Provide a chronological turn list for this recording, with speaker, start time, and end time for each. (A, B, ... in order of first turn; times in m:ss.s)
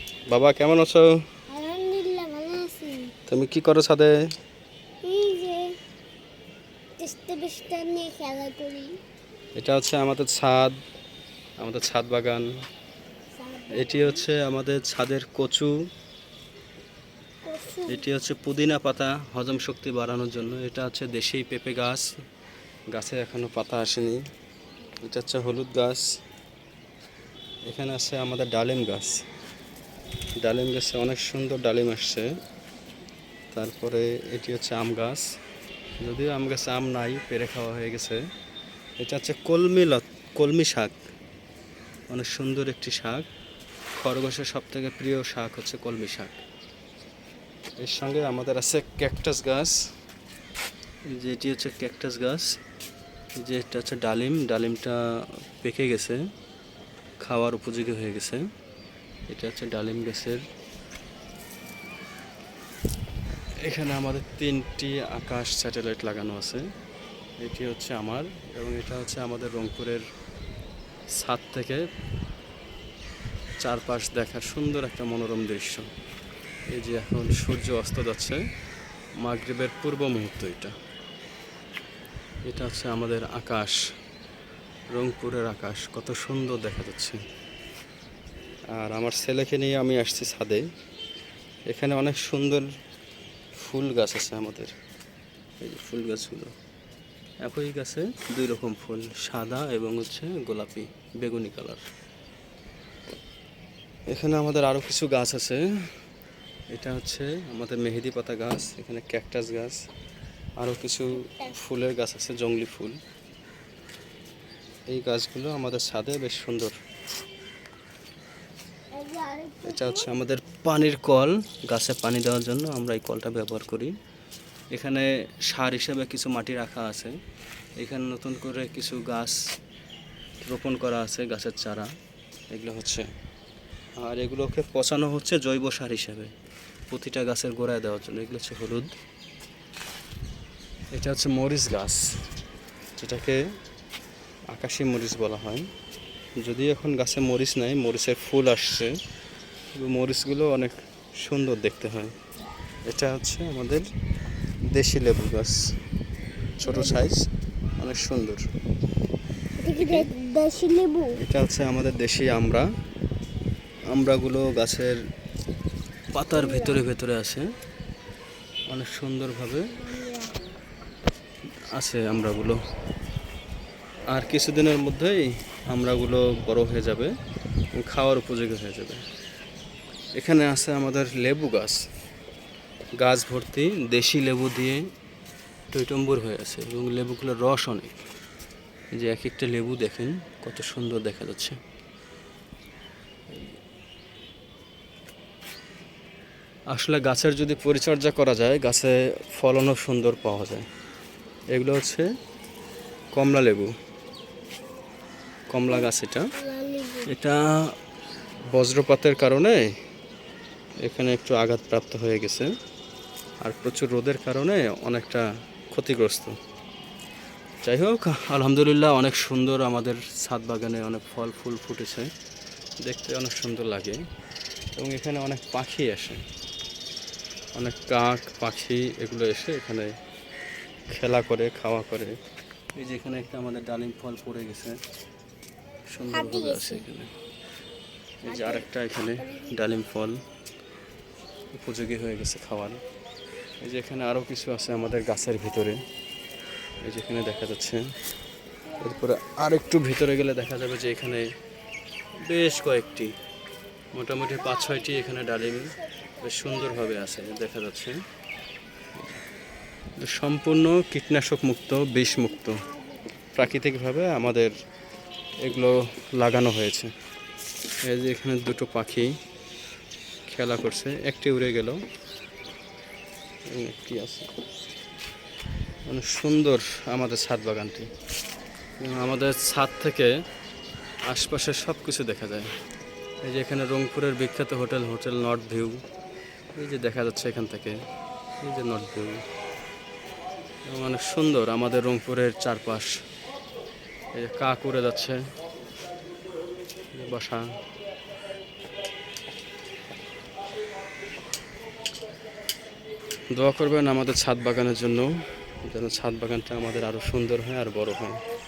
0:00.3-0:01.1 A
0:01.5-0:03.1 B
0:03.3-0:04.1 A
0:05.0-0:05.7 B
0:07.0-0:09.0 B
0:09.6-0:10.7 A
0:11.6-0:12.5 A
0:13.4-0:14.2 B
0:13.7-0:15.7 A
0:17.4-0:18.0 B
0:17.9-0:22.0 A
0:22.9-0:24.2 A
0:25.0-0:26.0 A
0:27.7-0:29.2 A
0:30.4-0:32.3 A
0:33.5-0:35.2 A
0:36.0-0:38.2 A
0:39.0-0:41.0 A
0:42.1-0:43.2 A
0:44.0-0:46.4 A
0:47.8-0:49.7 A
0:51.1-0:52.5 A
0:53.4-0:55.0 A
0:55.6-0:56.2 A
0:57.2-0:58.4 A
0:59.3-1:00.4 A
1:03.6-1:06.6 A
1:07.4-1:10.0 A
1:11.2-1:11.8 A
1:13.6-1:15.9 A
1:16.7-1:18.4 A
1:19.2-1:20.7 A
1:22.4-1:23.8 A
1:24.9-1:27.2 A
1:28.7-1:30.6 A
1:31.7-1:32.7 A
1:33.6-1:34.7 A
1:35.6-1:36.5 A
1:37.4-1:41.8 A
1:44.1-1:45.6 A
1:46.7-1:49.8 A
1:50.6-1:53.0 A
1:51.2-1:51.5 B
1:54.9-1:56.7 A
1:58.9-2:00.1 B
1:59.6-2:03.9 A
2:04.7-2:07.2 A
2:07.8-2:09.4 A
2:10.4-2:11.9 A
2:12.5-2:13.1 A
2:14.0-2:16.3 A
2:16.9-2:18.9 A
2:20.9-2:22.0 A
2:23.0-2:23.4 A
2:24.5-2:25.7 A
2:26.4-2:28.9 A
2:29.7-2:32.1 A
2:32.9-2:33.8 A
2:34.7-2:35.6 A
2:36.6-2:37.2 A
2:36.6-2:37.0 B
2:37.8-2:38.4 A
2:39.6-2:41.2 B
2:39.8-2:40.1 A
2:41.2-2:42.7 A
2:43.9-2:44.9 A
2:46.1-2:47.4 A
2:46.3-2:46.8 B
2:48.7-2:49.7 A
2:49.8-2:50.4 B
2:51.7-2:52.6 A
2:54.1-2:57.1 A
2:57.7-2:59.0 A
3:00.2-3:01.8 A
3:03.0-3:04.8 A
3:05.7-3:08.0 A
3:09.0-3:11.6 A
3:16.7-3:20.6 A
3:21.5-3:22.0 A
3:23.1-3:23.7 A
3:25.5-3:26.3 A
3:25.7-3:27.1 B
3:27.0-3:27.4 A
3:28.5-3:29.7 A
3:30.8-3:32.5 A
3:33.4-3:36.3 A
3:37.6-3:42.1 A
3:42.8-3:44.0 A
3:44.8-3:46.2 A
3:47.6-3:49.9 A
3:50.9-3:52.2 A
3:52.8-3:54.8 A
3:55.9-3:57.1 A
3:56.1-3:56.8 B
3:58.2-4:00.2 A
3:58.3-3:58.6 B
3:59.2-3:59.5 B
4:01.5-4:02.8 A
4:03.6-4:05.8 A
4:06.8-4:07.8 A
4:08.7-4:09.0 B
4:08.8-4:11.3 A
4:12.2-4:13.1 A
4:13.9-4:18.0 A
4:16.2-4:17.0 B
4:20.0-4:22.6 A
4:22.4-4:22.9 B
4:23.3-4:24.5 A
4:25.4-4:26.9 A
4:27.9-4:29.1 A
4:30.3-4:31.8 A
4:33.5-4:34.3 A
4:35.9-4:37.9 A
4:38.8-4:40.1 A
4:41.1-4:42.5 A
4:43.2-4:45.8 A
4:46.5-4:47.8 A
4:48.4-4:49.2 A
4:50.7-4:52.9 A
4:54.2-4:55.2 A
4:56.9-4:57.4 A
5:03.3-5:05.1 A
5:05.6-5:08.2 A